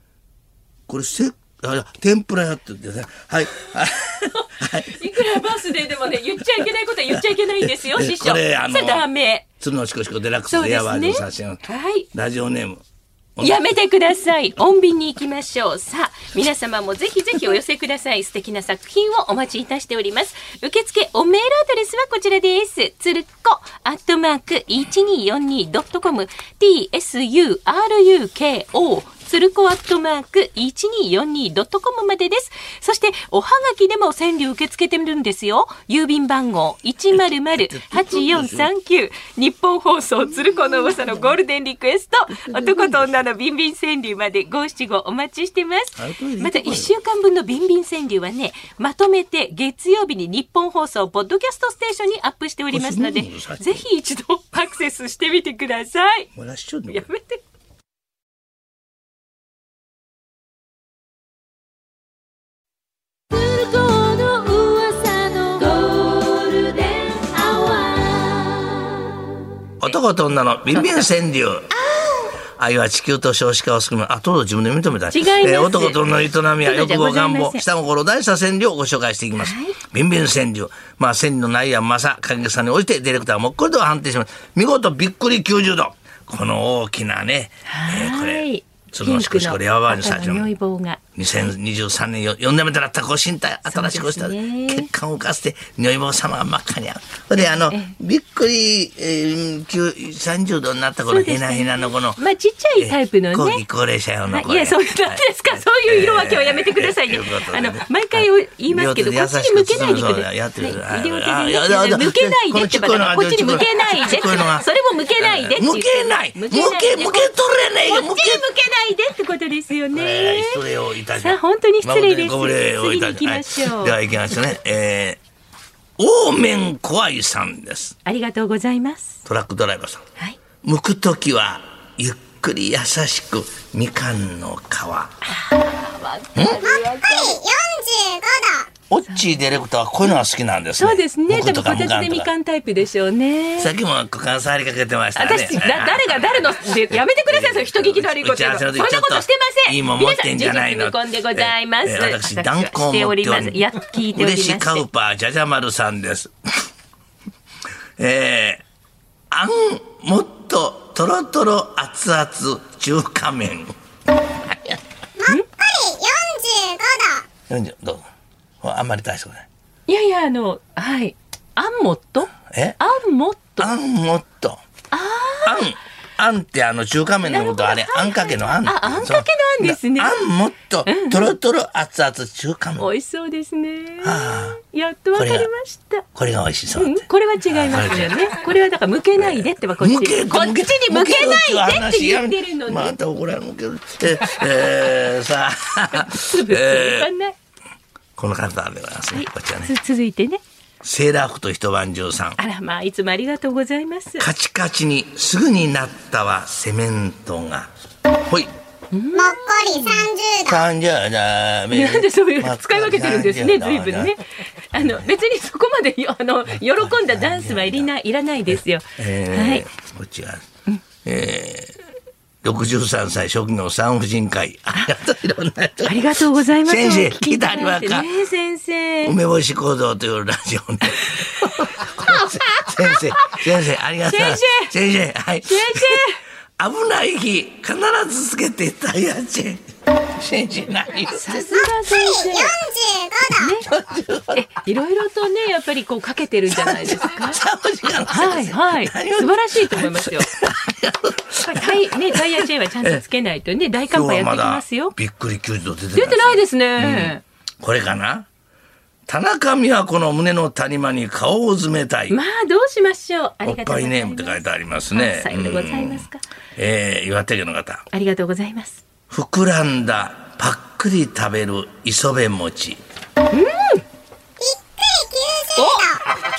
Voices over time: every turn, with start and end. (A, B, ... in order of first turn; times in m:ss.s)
0:00.9-0:05.2 A
0:04.7-0:09.4 B
0:07.1-0:09.1 A
0:09.6-0:12.8 A
0:10.5-0:12.1 B
0:13.4-0:13.7 A
0:13.4-0:56.3 B
0:37.5-0:38.7 A
0:40.3-0:41.3 A
0:42.3-0:43.2 A
0:46.0-0:46.9 A
0:52.7-0:53.8 A
0:56.3-0:57.1 A
0:56.9-0:57.4 B
1:03.3-1:09.5 B
1:09.8-1:11.7 A
1:10.7-1:11.1 B
1:11.7-1:12.4 B
1:12.6-1:30.5 A
1:15.1-1:16.0 B
1:16.6-1:17.6 B
1:19.4-1:19.8 B
1:27.7-1:31.0 B
1:31.2-1:42.2 A
1:33.7-1:34.9 B
1:37.4-1:38.0 B
1:41.1-1:43.6 B
1:42.8-1:58.5 A
1:44.3-2:00.6 B
1:59.9-2:05.2 A
2:01.2-2:04.0 B
2:06.0-2:08.0 A
2:08.0-2:09.2 B
2:09.2-2:10.0 A
2:10.6-2:15.2 A
2:15.2-2:17.4 B
2:16.3-2:16.7 A
2:16.7-2:18.7 C
2:18.9-2:22.3 A
2:20.8-2:23.7 B
2:23.6-2:36.3 A
2:25.2-2:34.8 B
2:38.0-2:38.6 A
2:39.3-2:43.8 A
2:44.5-2:44.8 A
2:45.2-2:47.3 C
2:47.5-2:48.1 A
2:48.6-2:49.5 A
2:49.9-2:53.7 B
2:52.5-2:52.8 A
2:53.6-2:54.6 A
2:54.9-2:55.7 B
2:55.4-3:02.9 A
2:57.2-3:00.2 B
3:00.8-3:01.3 B
3:02.8-3:06.0 B
3:04.0-3:04.6 A
3:05.2-3:05.5 A
3:06.2-3:08.2 A
3:06.8-3:13.0 B
3:09.2-3:17.1 A
3:15.9-3:17.4 B
3:18.2-3:19.7 A
3:19.1-3:20.4 B
3:20.8-3:22.4 A
3:22.4-3:24.3 B
3:24.2-3:27.7 A
3:28.2-3:28.5 A
3:28.9-3:30.1 B
3:29.1-3:30.6 C
3:30.4-3:34.2 A
3:31.7-3:39.6 B
3:34.8-3:35.0 A
3:36.5-3:37.9 A
3:39.0-3:40.5 A
3:41.0-3:41.8 A
3:42.4-3:48.2 A
3:45.8-3:49.2 B
3:49.0-3:56.0 A
3:51.5-3:53.4 B
3:54.0-3:54.7 B
3:55.4-3:56.2 B
3:56.6-3:59.6 A
4:00.1-4:01.3 A
4:01.1-4:02.6 B
4:02.2-4:03.5 C
4:03.3-4:03.7 B
4:03.4-4:04.4 A
4:04.3-4:07.4 B
4:06.5-4:13.0 A
4:08.1-4:10.3 B
4:11.4-4:15.0 B
4:13.9-4:18.3 A
4:16.0-4:17.2 B
4:19.1-4:22.2 A
4:22.1-4:26.2 B
4:23.4-4:27.8 A
4:27.9-4:28.8 B
4:29.1-4:32.8 A
4:33.3-4:33.8 B
4:34.4-4:36.0 C
4:35.6-4:35.9 B